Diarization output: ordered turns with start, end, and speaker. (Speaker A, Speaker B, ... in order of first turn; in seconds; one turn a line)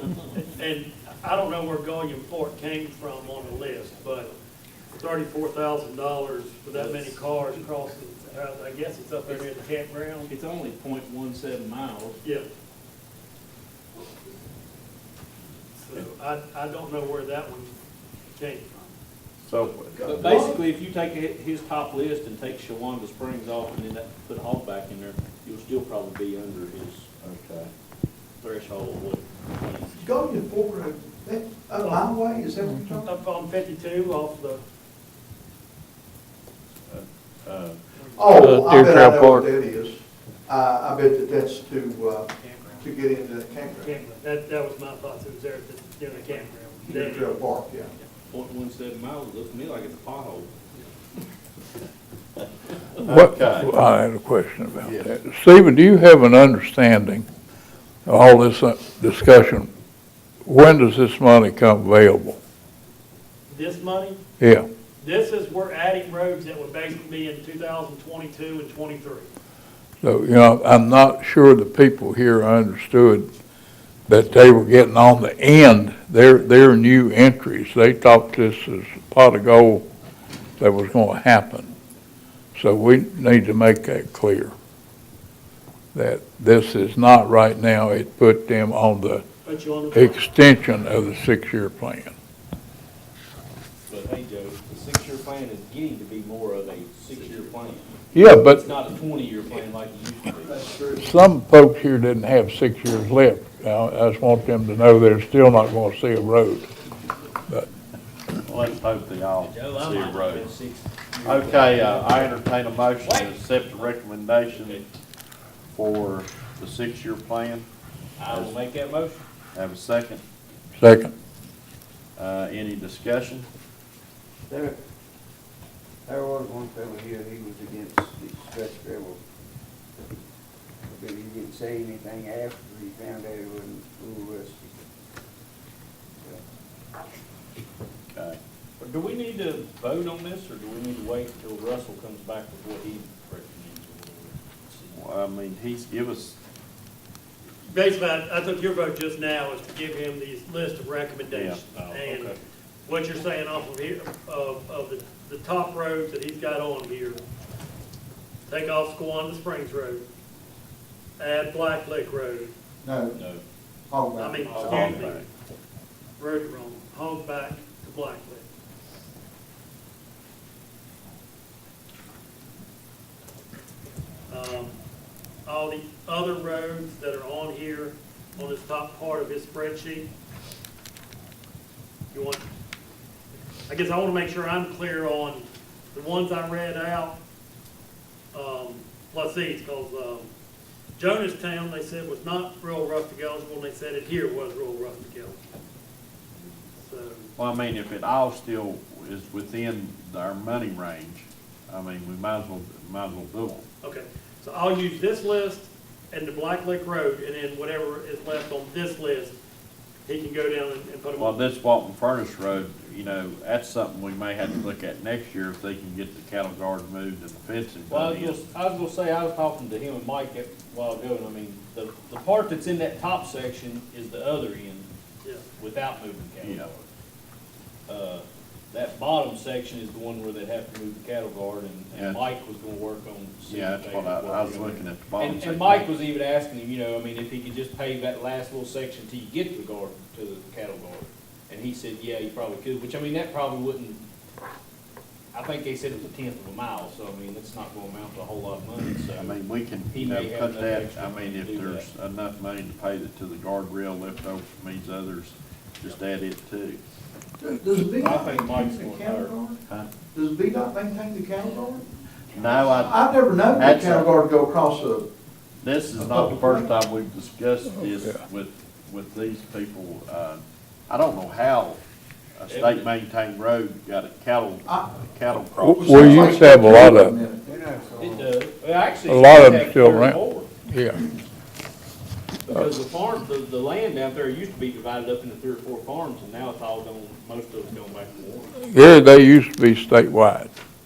Speaker A: 0.4-4.3
Speaker B: 3.2-4.4
Speaker A: 4.9-10.3
Speaker B: 6.7-7.2
Speaker B: 10.2-12.2
Speaker A: 15.8-17.7
Speaker A: 18.4-18.9
Speaker C: 19.4-20.3
Speaker D: 19.9-20.6
Speaker B: 20.1-27.1
Speaker C: 27.2-27.7
Speaker B: 28.4-30.1
Speaker D: 30.0-33.1
Speaker A: 31.8-32.1
Speaker A: 33.0-34.6
Speaker C: 36.9-37.8
Speaker A: 38.0-38.2
Speaker D: 38.2-44.0
Speaker E: 38.4-39.5
Speaker A: 43.8-47.3
Speaker D: 46.9-47.9
Speaker B: 48.3-50.5
Speaker C: 53.0-53.7
Speaker E: 53.0-57.3
Speaker C: 54.8-55.1
Speaker E: 58.1-59.7
Speaker E: 60.5-62.4
Speaker A: 63.5-64.2
Speaker E: 64.4-64.7
Speaker A: 65.0-69.3
Speaker E: 70.0-73.3
Speaker E: 74.1-79.8
Speaker E: 80.6-81.7
Speaker E: 82.6-84.5
Speaker E: 85.9-89.2
Speaker A: 89.5-90.2
Speaker E: 89.9-92.1
Speaker B: 93.9-100.8
Speaker E: 98.1-98.6
Speaker D: 100.5-101.0
Speaker E: 101.0-106.7
Speaker C: 108.5-110.5
Speaker B: 109.4-112.4
Speaker C: 111.2-114.8
Speaker B: 113.0-113.3
Speaker B: 114.5-114.9
Speaker C: 115.7-117.7
Speaker B: 118.2-119.2
Speaker C: 118.3-118.5
Speaker C: 119.5-120.2
Speaker E: 120.8-121.1
Speaker C: 122.2-123.5
Speaker F: 124.5-124.8
Speaker F: 126.1-129.2
Speaker F: 130.9-134.8
Speaker C: 138.1-138.4
Speaker B: 138.8-145.0
Speaker C: 144.9-146.4
Speaker A: 147.7-157.2
Speaker C: 151.3-151.6
Speaker B: 151.7-152.4
Speaker A: 158.5-160.0
Speaker A: 161.2-162.5
Speaker D: 162.8-163.2
Speaker B: 163.1-163.4
Speaker D: 163.9-165.0
Speaker A: 164.2-165.2
Speaker C: 164.5-165.3
Speaker A: 166.2-168.4
Speaker A: 174.3-174.8
Speaker A: 175.5-180.1
Speaker A: 182.1-182.4
Speaker A: 183.7-187.2
Speaker A: 188.3-190.3
Speaker A: 191.0-195.4
Speaker A: 196.8-197.3
Speaker C: 197.4-203.6
Speaker A: 203.8-209.3
Speaker A: 210.1-211.4
Speaker C: 211.2-218.4
Speaker B: 217.9-224.9
Speaker B: 225.6-226.9
Speaker C: 226.4-226.7
Speaker B: 227.9-244.0
Speaker C: 231.9-232.2
Speaker C: 233.5-235.9
Speaker B: 245.3-249.4
Speaker C: 249.2-256.8
Speaker B: 249.9-251.9
Speaker D: 257.4-259.6
Speaker B: 257.7-259.4
Speaker D: 260.1-261.9
Speaker C: 262.3-263.0
Speaker D: 262.6-265.1
Speaker C: 263.6-264.1
Speaker C: 265.6-271.8
Speaker D: 266.0-266.7
Speaker C: 272.4-276.4
Speaker B: 272.5-272.9
Speaker D: 274.6-275.0
Speaker E: 275.6-277.2
Speaker D: 275.6-277.7
Speaker F: 277.4-278.3
Speaker B: 278.0-280.5
Speaker E: 279.1-281.0
Speaker B: 282.5-288.5
Speaker E: 288.7-290.5